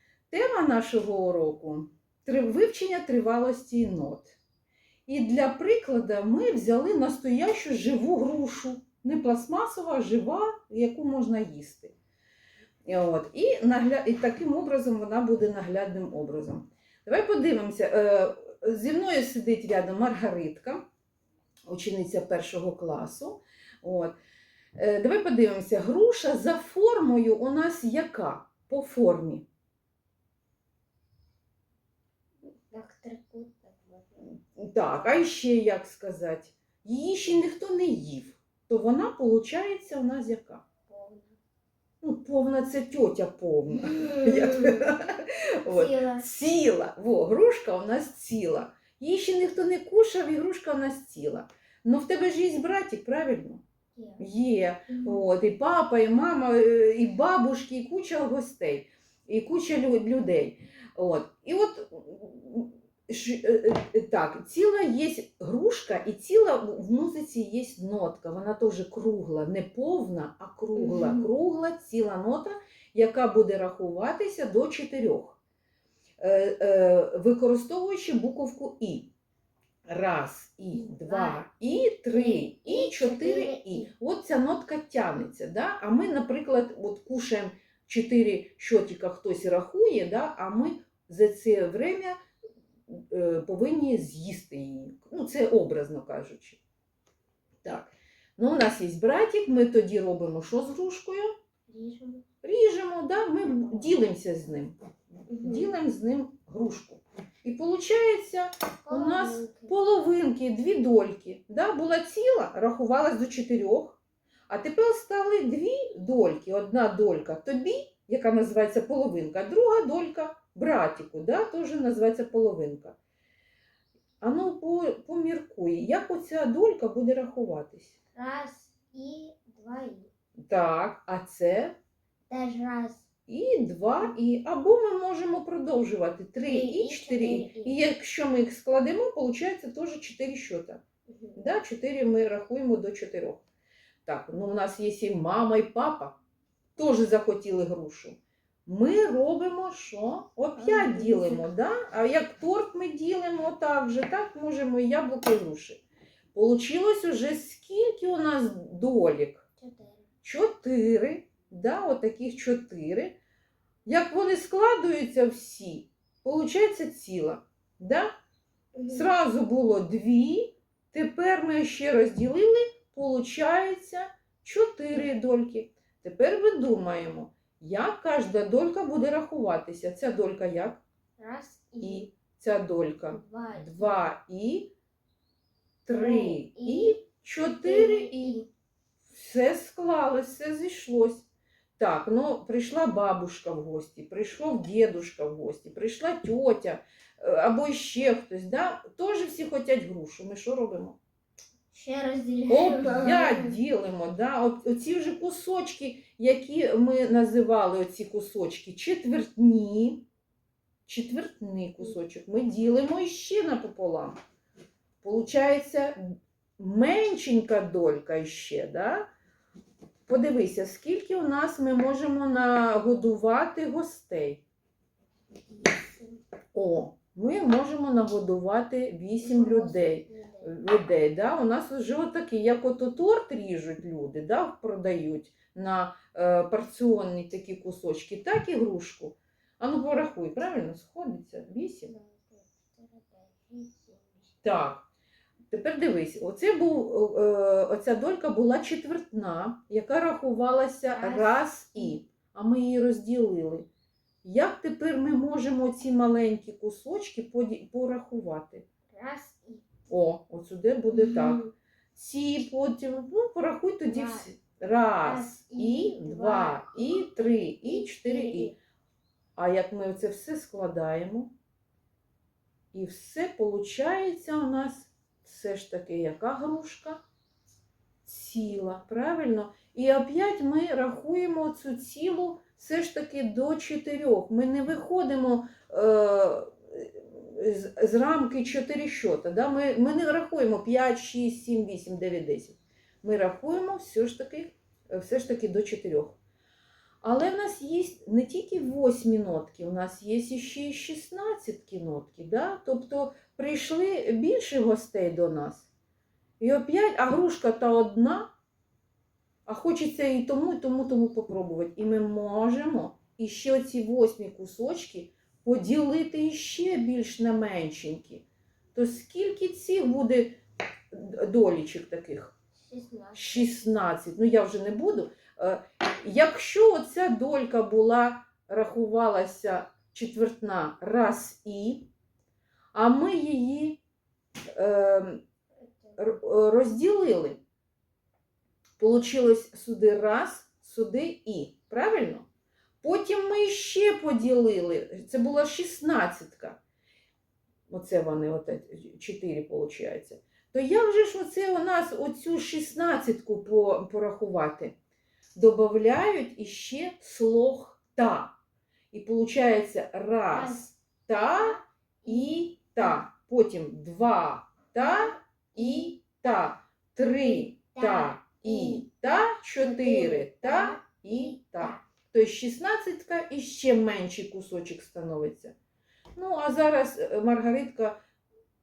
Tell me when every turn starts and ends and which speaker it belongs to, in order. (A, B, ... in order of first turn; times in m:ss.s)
0:00.3-0:04.4 A
0:05.1-0:12.0 A
0:12.9-0:20.8 A
0:21.7-0:24.2 A
0:24.8-0:29.5 A
0:32.7-0:34.3 B
0:34.3-0:40.6 A
0:40.9-0:41.4 B
0:42.0-0:53.6 A
0:45.7-0:46.3 B
0:54.0-0:54.2 B
0:54.2-1:15.4 A
0:54.9-0:55.2 B
1:10.7-1:11.3 B
1:16.2-1:19.1 A
1:19.9-1:32.2 A
1:20.7-1:21.4 B
1:22.1-1:23.9 B
1:32.9-1:36.6 A
1:37.6-1:41.3 A
1:41.7-1:42.2 B
1:42.4-1:44.8 A
1:45.3-2:03.0 A
1:45.3-1:45.7 B
1:48.8-1:49.8 B
2:04.2-2:08.0 A
2:08.2-2:10.1 B
2:10.4-2:11.8 A
2:12.3-2:13.1 B
2:13.3-2:20.8 A
2:16.4-2:17.8 B
2:21.1-2:21.4 B
2:21.4-2:23.4 A
2:24.1-2:26.2 A
2:26.8-2:35.8 A
2:30.6-2:31.5 B
2:36.3-2:39.5 A
2:39.6-2:40.0 B
2:40.2-2:43.2 A
2:43.9-2:48.1 A
2:48.8-2:49.1 B
2:48.9-3:00.8 A
3:01.2-3:02.1 B
3:01.8-3:04.7 A
3:03.1-3:04.0 B
3:05.9-3:08.4 A
3:05.9-3:07.0 B
3:07.6-3:08.5 B
3:09.1-3:11.3 A
3:11.8-3:21.0 A
3:21.7-3:23.6 B
3:22.5-3:30.0 A
3:30.9-3:34.2 A
3:35.0-3:36.0 A
3:36.6-3:39.1 A
3:40.1-3:44.4 A
3:45.5-3:46.2 B
3:46.5-4:01.9 A
3:49.2-3:50.6 B
4:01.8-4:04.4 B
4:04.4-4:04.9 A
4:05.5-4:13.7 A
4:10.9-4:12.0 B
4:14.2-4:18.7 A
4:18.9-4:19.7 B
4:19.9-4:28.5 A
4:20.9-4:21.5 B
4:23.9-4:24.3 B
4:25.0-4:28.6 B
4:29.4-4:31.3 A
4:32.7-4:37.0 A
4:38.0-4:56.2 A
4:57.0-5:05.7 A
5:06.4-5:08.3 A
5:09.5-5:20.4 A
5:20.9-5:22.3 A
5:22.6-5:23.5 B
5:23.1-5:31.9 A
5:32.7-5:33.8 A
5:34.5-5:35.2 A
5:35.6-5:36.1 B
5:36.0-5:37.4 A
5:38.8-5:42.3 A
5:42.8-5:46.6 A
5:47.7-5:54.8 A
5:55.4-5:58.3 A
5:58.9-6:15.6 A
6:00.3-6:03.0 B
6:04.8-6:05.9 B
6:07.2-6:11.9 B
6:16.2-6:18.0 A